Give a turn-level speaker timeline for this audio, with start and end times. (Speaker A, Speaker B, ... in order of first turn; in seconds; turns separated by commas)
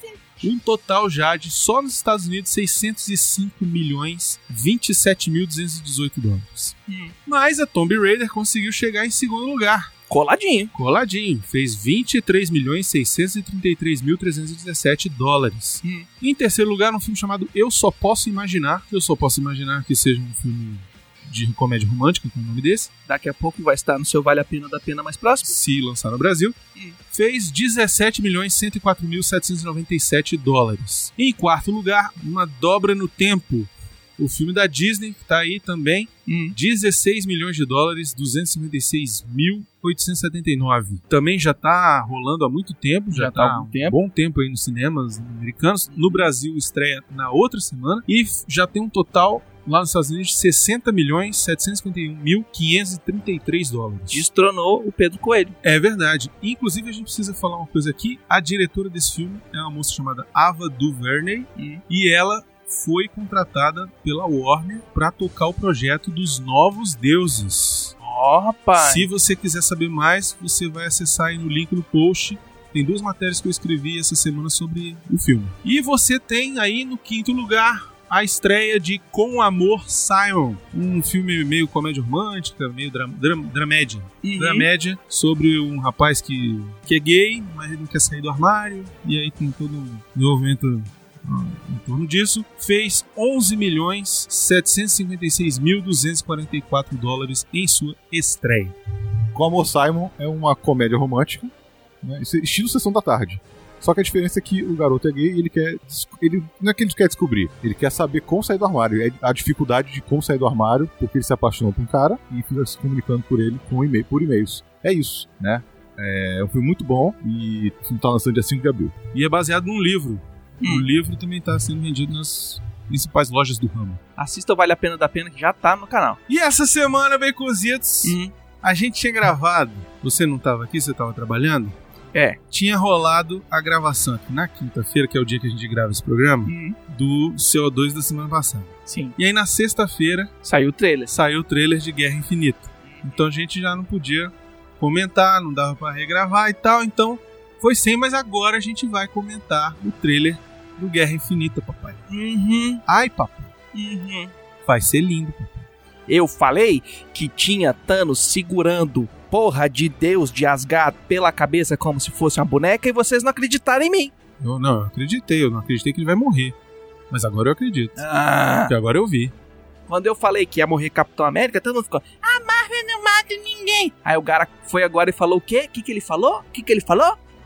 Speaker A: 0.4-9.9, Speaker B: 6.9-7.1, Speaker B: 10.1-10.7, Speaker A: 10.7-22.9, Speaker B: 23.1-25.6, Speaker A: 25.4-26.6, Speaker A: 27.1-54.2, Speaker B: 36.3-36.5, Speaker B: 43.1-44.0, Speaker B: 45.9-46.2, Speaker B: 54.1-55.5, Speaker A: 55.6-67.9, Speaker B: 61.5-61.8, Speaker B: 68.0-69.1, Speaker A: 68.8-98.7, Speaker B: 84.2-84.7, Speaker C: 99.3-119.0, Speaker A: 119.1-124.0, Speaker B: 120.6-120.9, Speaker B: 124.2-126.2, Speaker A: 126.3-131.7, Speaker B: 128.0-128.3, Speaker A: 132.5-140.3, Speaker B: 136.4-136.8, Speaker B: 138.9-139.1, Speaker B: 140.4-141.1, Speaker A: 141.1-152.0, Speaker B: 152.1-152.8, Speaker A: 152.8-153.5, Speaker B: 153.7-154.3, Speaker A: 154.7-155.7, Speaker B: 156.1-164.1, Speaker A: 164.4-166.5, Speaker A: 167.1-168.0, Speaker B: 167.9-168.7, Speaker A: 168.7-169.3, Speaker B: 169.9-177.2